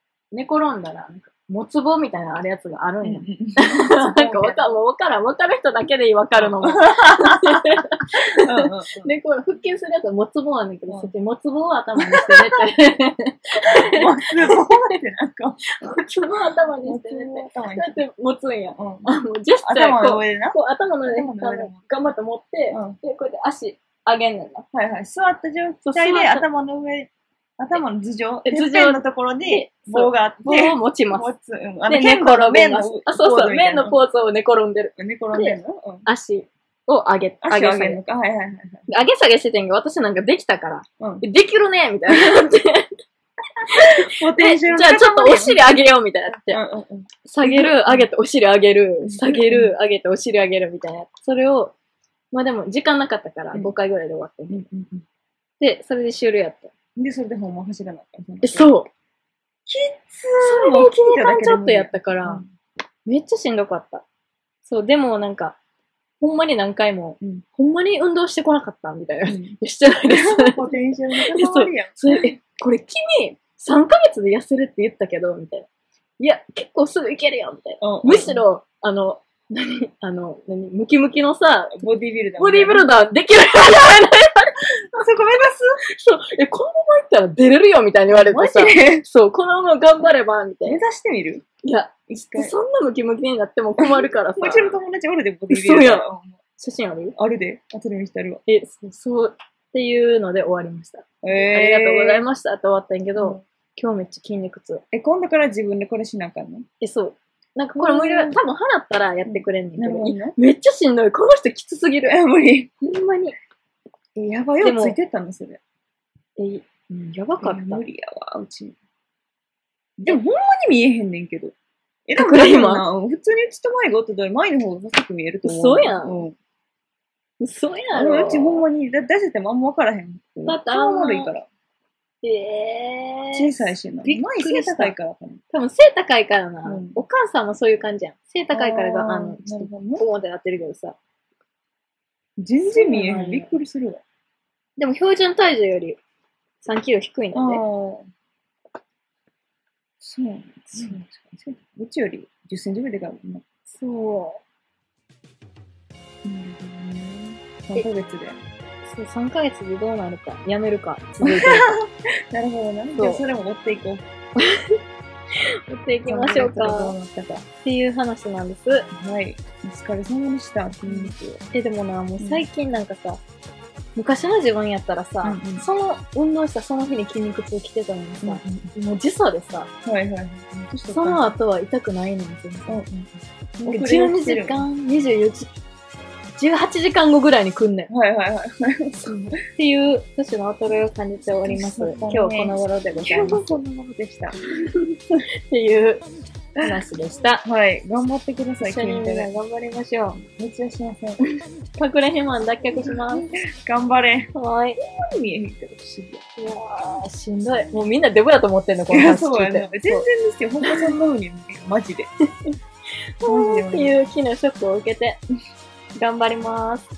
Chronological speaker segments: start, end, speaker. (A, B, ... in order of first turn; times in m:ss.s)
0:00.3-0:14.7 A
0:03.0-0:04.8 B
0:06.4-0:07.7 B
0:08.4-0:09.1 B
0:12.0-0:12.6 B
0:13.8-0:15.6 B
0:15.7-0:24.7 A
0:16.8-0:18.0 B
0:18.8-0:21.8 B
0:22.7-0:23.0 B
0:24.7-0:34.0 B
0:25.8-0:26.4 A
0:28.4-0:31.3 A
0:31.9-0:38.0 A
0:35.0-0:36.0 B
0:37.4-0:38.9 B
0:38.9-0:43.0 A
0:43.7-0:46.6 A
0:43.7-0:45.8 B
0:46.5-0:48.1 B
0:47.2-0:51.7 A
0:49.0-0:49.7 B
0:52.3-0:54.6 A
0:54.5-0:55.0 B
0:55.6-0:56.7 A
0:57.0-0:58.7 B
0:58.4-0:58.9 A
0:59.7-1:02.5 B
1:00.4-1:02.4 A
1:03.0-1:04.0 A
1:04.6-1:05.6 A
1:06.2-1:10.6 A
1:09.2-1:12.0 B
1:11.1-1:15.7 A
1:16.2-1:21.8 A
1:17.8-1:18.4 B
1:21.8-1:22.9 B
1:22.4-1:24.6 A
1:24.9-1:25.8 B
1:25.9-1:30.8 A
1:28.1-1:29.0 B
1:30.6-1:31.4 B
1:31.6-1:34.8 A
1:32.1-1:32.5 B
1:33.8-1:36.4 B
1:35.5-1:36.0 A
1:36.6-1:37.2 A
1:37.2-1:38.4 B
1:38.5-1:44.8 A
1:41.2-1:42.2 B
1:43.2-1:43.4 B
1:44.9-1:46.7 B
1:46.8-1:52.2 A
1:47.8-1:48.4 B
1:49.2-1:50.4 B
1:52.1-1:52.7 B
1:52.8-1:53.3 A
1:54.2-1:55.6 B
1:54.6-1:55.0 A
1:56.4-1:57.8 A
1:57.4-1:58.7 B
2:00.0-2:01.5 B
2:02.1-2:06.3 B
2:02.1-2:02.8 A
2:05.4-2:06.2 A
2:07.4-2:08.6 A
2:07.9-2:11.5 B
2:10.4-2:11.3 A
2:12.2-2:15.0 A
2:13.3-2:15.4 B
2:15.5-2:21.0 A
2:16.6-2:17.0 B
2:18.5-2:20.0 B
2:22.4-2:24.0 B
2:22.7-2:23.6 A
2:24.8-2:26.0 A
2:26.6-2:27.6 A
2:27.3-2:28.1 B
2:30.0-2:33.4 B
2:33.7-2:34.4 A
2:36.2-2:38.4 B
2:38.8-2:41.7 A
2:41.2-2:44.0 B
2:43.0-2:43.2 A
2:44.4-2:44.8 A
2:45.7-2:46.9 A
2:46.0-2:47.4 B
2:47.5-2:48.9 A
2:48.9-2:51.4 B
2:50.8-2:53.2 A
2:52.2-2:52.5 B
2:54.0-2:59.7 A
2:55.2-2:55.6 B
2:58.2-2:58.7 B
2:59.8-3:01.3 B
3:00.9-3:02.8 A
3:02.7-3:04.7 B
3:03.6-3:05.5 A
3:06.4-3:07.9 A
3:07.9-3:09.3 B
3:09.0-3:13.6 A
3:11.4-3:14.4 B
3:15.5-3:16.0 A
3:16.6-3:17.4 A
3:17.4-3:19.3 B
3:18.6-3:20.2 A
3:20.2-3:21.2 B
3:21.2-3:23.2 A
3:22.8-3:24.3 B
3:24.3-3:24.8 A
3:24.9-3:26.2 B
3:26.4-3:30.0 A
3:28.9-3:32.1 B
3:33.2-3:35.2 A
3:33.2-3:34.0 B
3:36.0-3:36.9 A